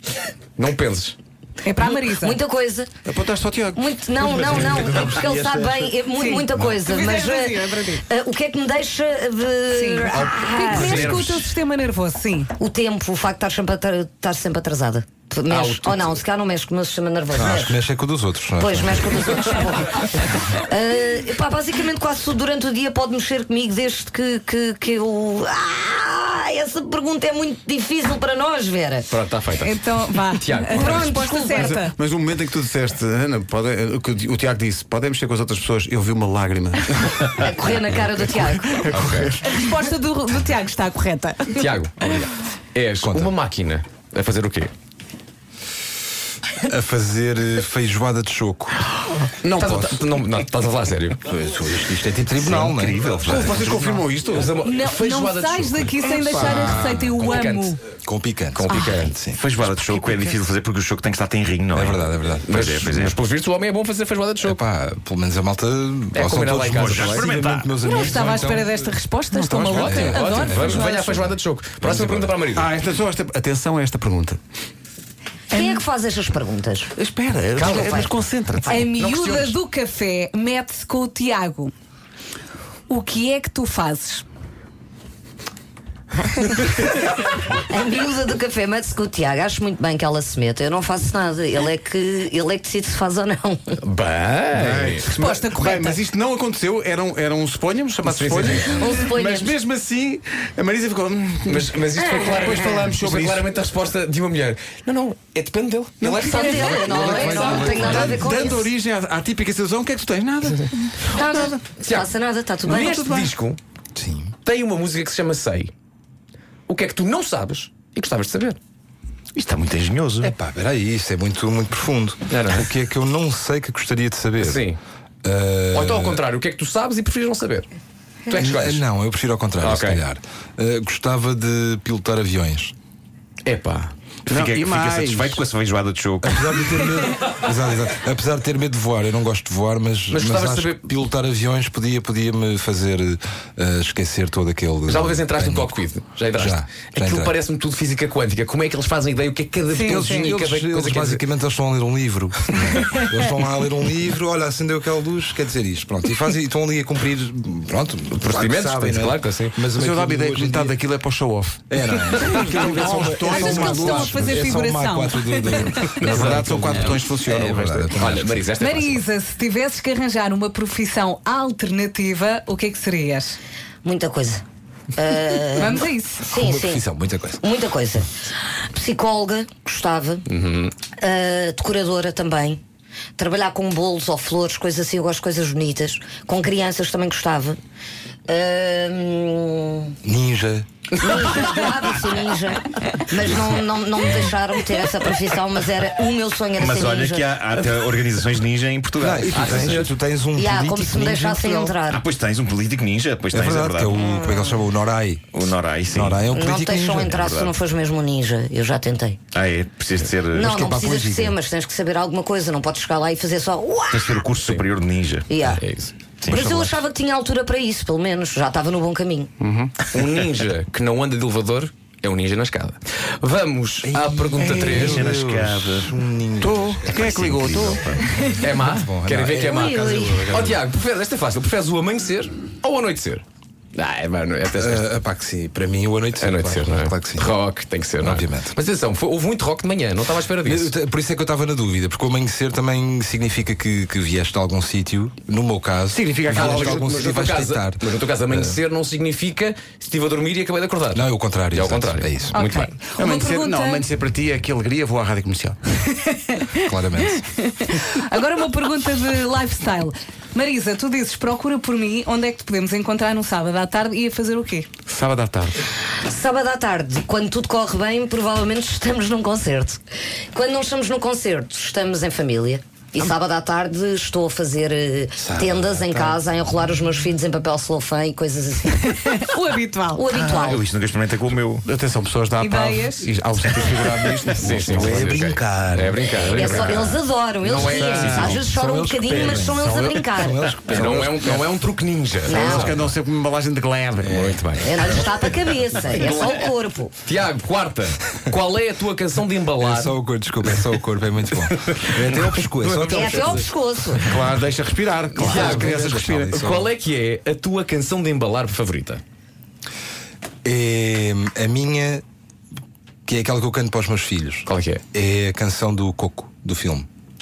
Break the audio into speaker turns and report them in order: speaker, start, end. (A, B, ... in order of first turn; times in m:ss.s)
0:00.6-0:01.1 A
0:01.6-0:02.4 B
0:01.8-0:02.9 C
0:03.0-0:05.2 D
0:03.7-0:11.4 C
0:06.1-0:08.0 B
0:09.7-0:12.5 B
0:10.7-0:11.4 A
0:12.6-0:17.8 C
0:15.5-0:16.2 A
0:17.3-0:19.3 E
0:18.6-0:29.1 C
0:29.1-0:31.1 A
0:29.5-0:31.9 B
0:30.7-0:31.8 C
0:30.9-0:37.5 D
0:37.4-0:38.8 C
0:38.6-0:39.5 D
0:38.9-0:39.4 A
0:39.4-0:41.6 B
0:41.5-0:42.0 A
0:42.0-0:42.3 E
0:42.7-0:44.7 A
0:43.0-0:43.3 E
0:46.6-0:48.8 E
0:49.4-0:51.2 A
0:49.5-0:50.0 E
0:51.2-0:53.8 E
0:52.4-0:54.0 F
0:53.3-0:54.5 D
0:54.3-0:57.8 A
0:54.6-0:57.8 B
0:56.0-0:56.9 D
0:58.0-0:59.4 E
0:58.5-0:59.2 A
0:59.4-1:03.2 F
0:59.9-1:00.4 D
1:01.7-1:02.4 E
1:02.4-1:04.6 A
1:04.4-1:08.8 E
1:06.1-1:07.2 A
1:06.8-1:08.4 F
1:07.8-1:10.8 B
1:09.4-1:11.0 D
1:09.6-1:10.9 E
1:09.7-1:12.7 A
1:11.8-1:14.4 D
1:15.5-1:15.8 B
1:15.5-1:16.9 C
1:16.9-1:18.8 D
1:17.6-1:19.4 C
1:18.7-1:21.7 B
1:22.9-1:24.2 B
1:26.2-1:33.8 C
1:33.8-1:35.1 A
1:34.5-1:43.6 D
1:35.1-1:36.0 B
1:38.0-1:38.9 A
1:38.7-1:39.5 C
1:38.7-1:39.1 B
1:41.4-1:47.9 A
1:41.9-1:42.9 C
1:46.0-1:46.6 D
1:46.2-1:48.7 C
1:46.7-1:48.6 E
1:47.8-1:51.6 D
1:51.0-1:52.1 A
1:51.1-1:53.1 C
1:52.7-1:53.6 A
1:52.8-1:53.3 D
1:53.9-1:54.3 E
1:54.4-1:55.7 A
1:56.7-1:58.6 A
1:59.4-2:00.3 F
2:00.2-2:04.6 E
2:02.3-2:02.6 A
2:04.4-2:04.8 A
2:05.2-2:06.2 E
2:05.7-2:07.7 A
2:08.3-2:08.8 A
2:08.3-2:12.7 E
2:09.6-2:10.0 A
2:13.4-2:13.9 A
2:14.3-2:15.5 D
2:14.3-2:16.8 F
2:16.2-2:25.7 E
2:20.1-2:20.8 A
2:24.8-2:31.2 A
2:26.3-2:27.3 E
2:29.7-2:30.3 B
2:29.8-2:40.8 E
2:38.2-2:39.6 A
2:39.7-2:44.5 D
2:41.7-2:48.4 E
2:42.8-2:44.0 C
2:43.2-2:46.3 B
2:46.0-2:47.9 D
2:48.0-2:49.0 A
2:48.6-2:53.4 B
2:53.8-2:54.4 C
2:54.9-2:56.8 C
2:55.6-2:56.3 B
2:56.3-2:57.4 E
2:57.4-2:58.1 C
2:58.6-3:00.2 C
3:00.3-3:00.7 A
3:01.0-3:02.6 C
3:03.2-3:07.6 C
3:08.3-3:09.9 C
3:10.0-3:10.6 E
3:11.0-3:17.3 C
3:16.6-3:19.8 F
3:19.0-3:21.8 E
3:19.3-3:19.9 A
3:20.4-3:22.0 C
3:21.8-3:23.9 F
3:23.3-3:25.4 E
3:23.9-3:24.6 C
3:25.3-3:26.2 F
3:25.9-3:27.2 E
3:26.3-3:29.2 C
3:27.1-3:27.6 F
3:29.3-3:30.5 F
3:30.3-3:34.3 C
3:30.3-3:31.4 E
3:33.9-3:35.5 F
3:35.3-3:35.6 C
3:35.6-3:35.9 A
3:36.2-3:36.7 F
3:36.3-3:39.3 C
3:39.4-3:39.7 D
3:39.9-3:45.0 A
3:43.8-3:50.6 E
3:44.7-3:45.9 F
3:46.4-3:47.8 D
3:46.8-3:48.0 F
3:48.4-3:53.2 A
3:49.4-3:50.4 C
3:53.7-3:54.8 A
3:54.6-3:57.3 E
3:56.2-4:00.7 A
3:58.0-3:58.5 E
4:00.4-4:08.6 E
4:05.9-4:06.9 D
4:06.3-4:12.7 A
4:10.9-4:12.4 E
4:12.3-4:13.8 B
4:13.0-4:15.7 D
4:15.9-4:24.7 B
4:16.6-4:17.2 E
4:24.8-4:25.6 D
4:26.0-4:29.8 C
4:30.3-4:39.2 C
4:35.2-4:36.2 E
4:38.8-4:40.0 B
4:39.9-4:40.6 C
4:40.1-4:41.6 F
4:41.6-4:45.0 D
4:42.4-4:43.1 B
4:44.4-4:48.4 A
4:44.6-4:46.4 E
4:46.0-4:50.5 C
4:47.6-4:48.1 D
4:47.8-4:51.2 E
4:49.6-4:50.0 D
4:50.6-4:52.9 A
4:50.8-4:51.4 D
4:52.2-4:52.9 C
4:52.3-4:54.2 D
4:54.0-4:54.4 E
4:54.1-4:55.0 A
4:54.6-4:56.9 C
4:57.0-5:00.0 A
4:59.6-5:03.4 E
5:01.3-5:03.5 A
5:02.9-5:04.1 C
5:04.1-5:06.4 D
5:05.2-5:06.7 E
5:05.2-5:09.0 A
5:10.4-5:12.0 E
5:13.1-5:16.9 E
5:14.4-5:14.8 A